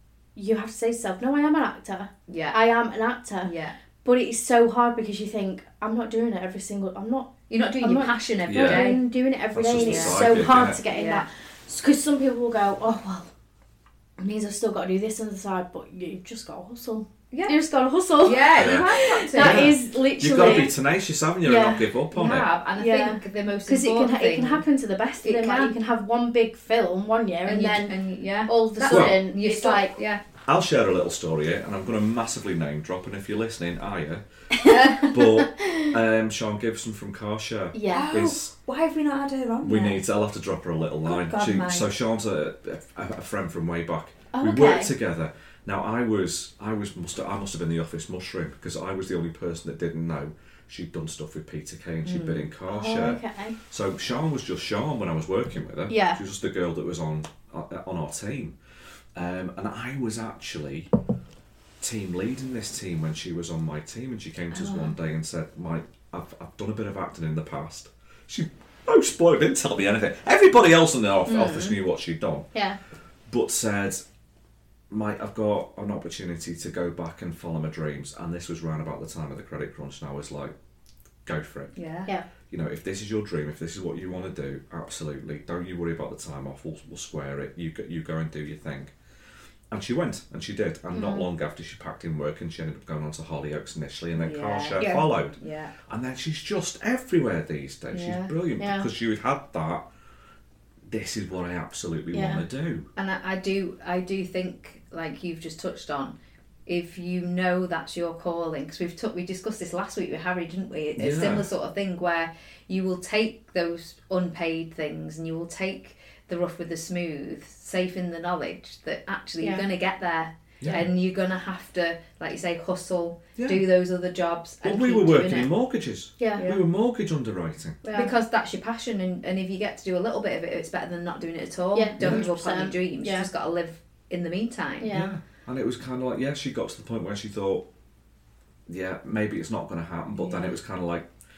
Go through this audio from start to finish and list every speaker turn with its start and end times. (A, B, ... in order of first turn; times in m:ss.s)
0:00.4-0:03.5 A
0:02.3-0:02.6 B
0:03.4-0:03.7 B
0:04.0-0:13.3 A
0:07.5-0:09.0 B
0:08.4-0:08.8 C
0:09.5-0:10.8 C
0:09.8-0:10.2 B
0:10.9-0:11.2 B
0:14.2-0:20.7 A
0:17.3-0:17.6 B
0:18.2-0:19.7 B
0:18.6-0:22.5 C
0:20.4-0:20.7 B
0:21.4-0:21.9 A
0:22.1-0:24.6 B
0:22.8-0:27.9 A
0:25.2-0:25.8 B
0:27.4-0:30.2 B
0:28.4-0:29.9 A
0:28.8-0:29.2 C
0:30.4-0:34.2 C
0:34.6-0:35.9 A
0:34.6-0:35.1 B
0:35.1-0:38.5 C
0:37.7-0:38.1 A
0:37.9-0:40.0 B
0:39.6-0:58.6 C
0:41.0-0:41.9 B
0:44.3-0:44.9 A
0:52.0-0:52.4 B
0:52.7-0:53.6 A
0:55.9-0:56.2 A
0:59.2-1:00.9 C
1:01.8-1:12.5 C
1:04.5-1:04.9 B
1:11.3-1:11.8 B
1:13.3-1:14.0 C
1:14.9-1:20.5 C
1:21.2-1:21.7 C
1:21.7-1:22.1 B
1:22.5-1:28.9 C
1:29.7-1:39.8 C
1:30.9-1:31.2 A
1:34.2-1:35.7 B
1:37.9-1:38.3 B
1:38.6-1:38.8 A
1:40.9-1:42.9 C
1:42.1-1:42.4 A
1:43.0-1:46.1 B
1:46.6-2:05.5 B
1:51.0-1:51.4 C
2:00.6-2:00.8 C
2:03.4-2:03.6 C
2:04.6-2:07.8 C
2:06.2-2:06.5 A
2:07.8-2:08.1 A
2:07.9-2:14.9 B
2:11.7-2:13.3 A
2:12.0-2:12.3 C
2:14.8-2:15.1 A
2:14.9-2:17.6 C
2:18.7-2:21.1 C
2:20.2-2:20.5 B